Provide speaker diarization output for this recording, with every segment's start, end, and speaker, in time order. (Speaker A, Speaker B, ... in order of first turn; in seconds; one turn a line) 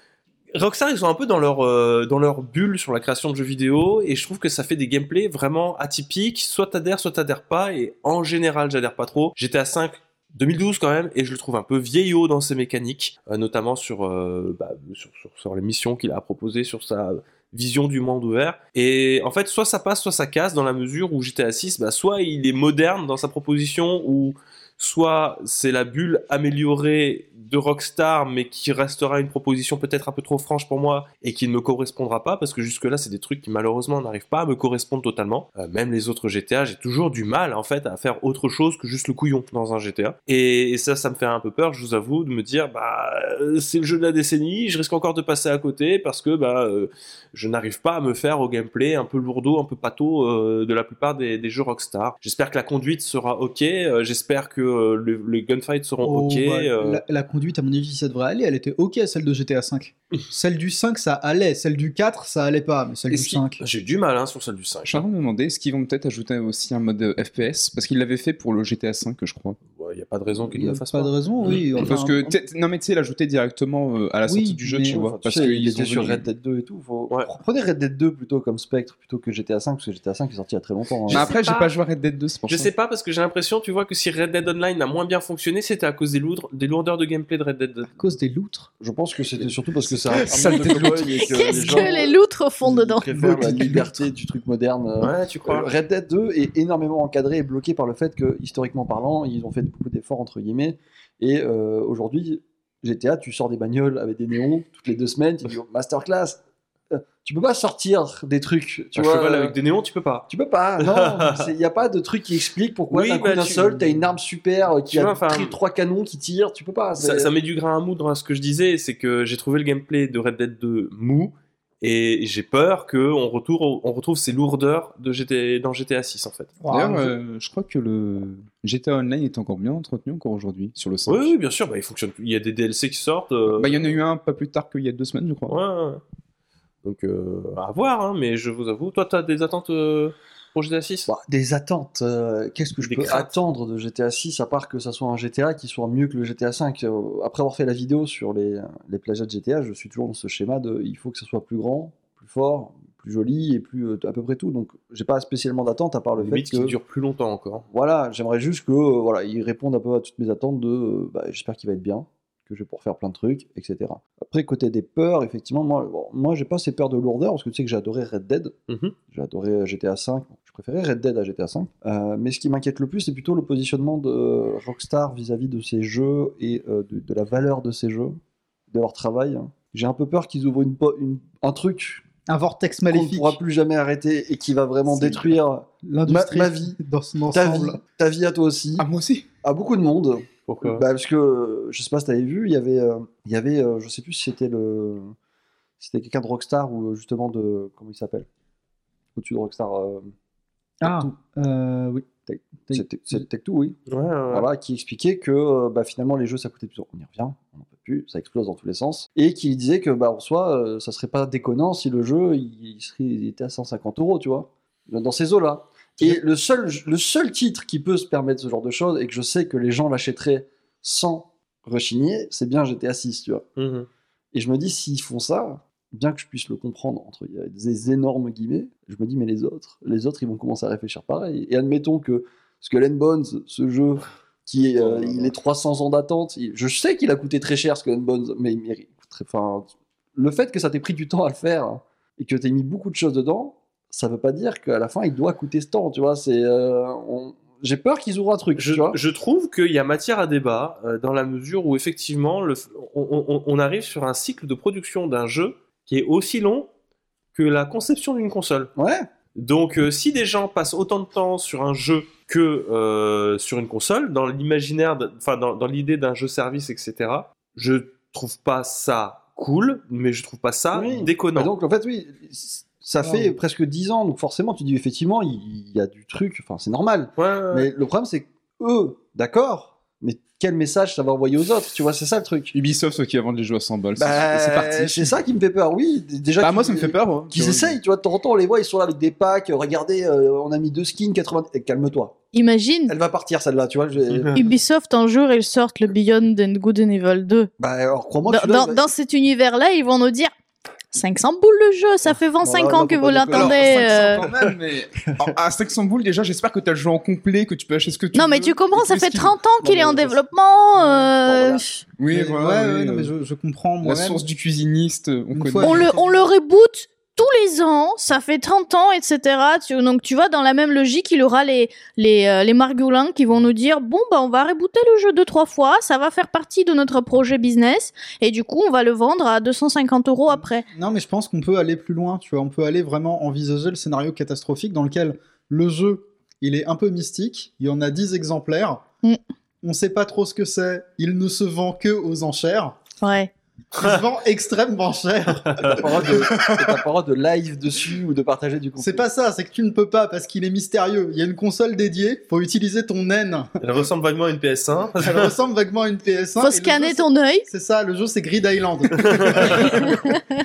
Speaker A: 0.5-57.0
Speaker B: 56.0-63.6
Speaker C: 63.1-63.4
Speaker A: 63.6-65.0
Speaker C: 64.9-69.6
Speaker A: 69.8-71.8
Speaker B: 70.5-72.4
Speaker C: 71.8-76.2
Speaker B: 74.3-75.0
Speaker D: 74.9-81.3
Speaker A: 81.1-81.7
Speaker C: 81.1-82.7
Speaker A: 82.5-88.0
Speaker B: 87.9-88.7
Speaker D: 88.8-106.4
Speaker A: 89.8-90.4
Speaker C: 90.3-91.3
Speaker E: 91.1-93.1
Speaker B: 91.6-91.9
Speaker B: 93.1-93.9
Speaker A: 95.0-95.7
Speaker D: 106.9-109.5
Speaker A: 109.0-110.3
Speaker D: 110.3-117.3
Speaker A: 110.8-111.5
Speaker A: 112.9-114.1
Speaker A: 114.8-115.6
Speaker A: 117.0-126.5
Speaker B: 126.6-127.1
Speaker C: 126.7-131.3
Speaker A: 131.1-133.9
Speaker C: 133.5-135.6
Speaker A: 135.5-136.0
Speaker A: 136.8-141.1
Speaker D: 141.1-156.7
Speaker A: 142.8-143.3
Speaker A: 156.2-157.7
Speaker D: 157.7-168.5
Speaker A: 168.7-168.9
Speaker D: 169.1-178.2
Speaker D: 178.7-182.1
Speaker B: 182.3-183.4
Speaker D: 182.9-186.8
Speaker B: 185.8-187.8
Speaker D: 187.3-188.9
Speaker C: 188.8-189.3
Speaker D: 189.4-195.1
Speaker A: 190.5-190.8
Speaker D: 195.8-198.3
Speaker D: 199.2-200.1
Speaker B: 200.8-202.1
Speaker D: 202.3-203.8
Speaker B: 202.7-203.2
Speaker A: 203.9-204.5
Speaker D: 204.3-223.5
Speaker A: 223.6-223.9
Speaker D: 224.3-249.0
Speaker A: 234.8-235.3
Speaker A: 248.6-256.7
Speaker A: 257.3-258.7
Speaker D: 258.8-259.1
Speaker A: 259.4-271.5
Speaker D: 270.7-282.5
Speaker B: 273.0-273.4
Speaker A: 277.2-277.7
Speaker C: 282.5-285.1
Speaker D: 284.0-292.2
Speaker C: 286.4-287.8
Speaker E: 292.3-292.9
Speaker D: 292.9-294.5
Speaker A: 294.1-294.4
Speaker E: 294.3-297.5
Speaker D: 297.6-298.8
Speaker E: 298.3-300.3
Speaker E: 300.9-304.2
Speaker D: 302.4-304.3
Speaker C: 303.3-308.6
Speaker E: 308.1-311.8
Speaker B: 308.7-309.4
Speaker D: 309.6-310.2
Speaker D: 310.8-311.6
Speaker C: 312.0-313.1
Speaker B: 312.1-314.2
Speaker C: 313.8-315.9
Speaker B: 315.3-316.2
Speaker E: 315.6-330.6
Speaker B: 330.3-338.8
Speaker B: 339.6-342.8
Speaker E: 343.0-343.3
Speaker B: 343.7-346.8
Speaker A: 343.8-344.0
Speaker A: 345.4-346.1
Speaker D: 345.6-349.1
Speaker B: 348.8-353.5
Speaker A: 353.6-355.4
Speaker B: 355.0-360.1
Speaker E: 356.4-357.5
Speaker A: 358.9-359.8
Speaker E: 359.7-360.2